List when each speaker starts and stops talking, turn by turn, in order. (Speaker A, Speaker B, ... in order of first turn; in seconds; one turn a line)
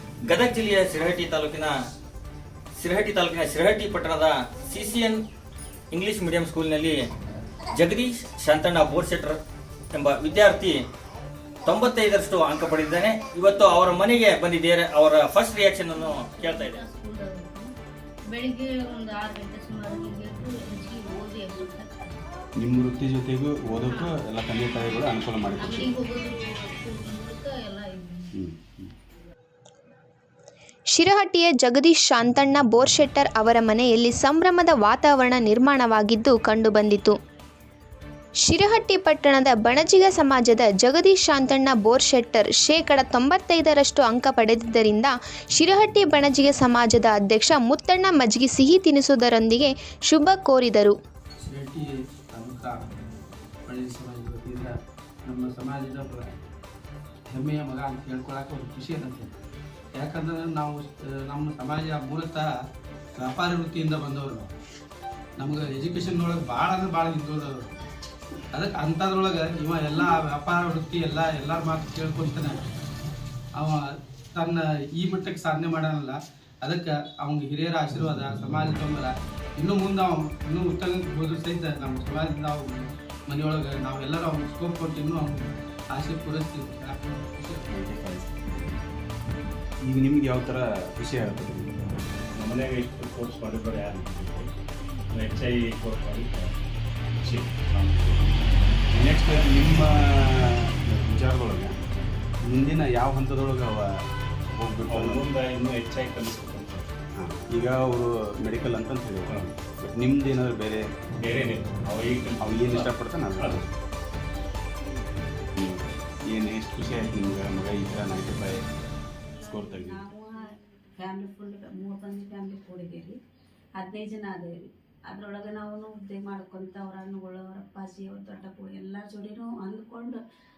Speaker A: 0.2-1.7
Speaker A: 2.8-5.2
Speaker A: 5.9-7.0
Speaker A: 7.7-9.4
Speaker A: 9.9-10.8
Speaker A: 11.7-16.8
Speaker B: 15.7-17.7
Speaker B: 18.3-22.1
Speaker C: 22.6-25.9
Speaker B: 25.6-28.4
Speaker C: 28.3-28.9
Speaker D: 30.9-37.2
Speaker D: 38.4-51.0
Speaker E: 51.4-52.8
Speaker E: 53.7-54.7
Speaker E: 55.2-56.3
Speaker E: 57.3-59.3
Speaker E: 60.0-62.5
Speaker E: 63.2-64.5
Speaker E: 65.4-67.6
Speaker E: 68.5-72.6
Speaker E: 73.5-73.8
Speaker E: 74.3-85.4
Speaker E: 85.9-87.6
Speaker C: 87.7-88.8
Speaker C: 89.8-91.8
Speaker F: 92.4-94.5
Speaker F: 95.2-96.5
Speaker C: 97.7-98.3
Speaker C: 98.9-101.8
Speaker C: 102.5-104.0
Speaker C: 104.6-105.3
Speaker F: 104.9-106.9
Speaker C: 107.2-110.8
Speaker F: 111.2-112.8
Speaker C: 112.4-113.7
Speaker C: 115.6-118.6
Speaker G: 119.4-120.5
Speaker C: 119.4-120.0
Speaker B: 120.6-120.9
Speaker G: 121.0-123.2
Speaker G: 123.8-124.5
Speaker G: 125.1-130.2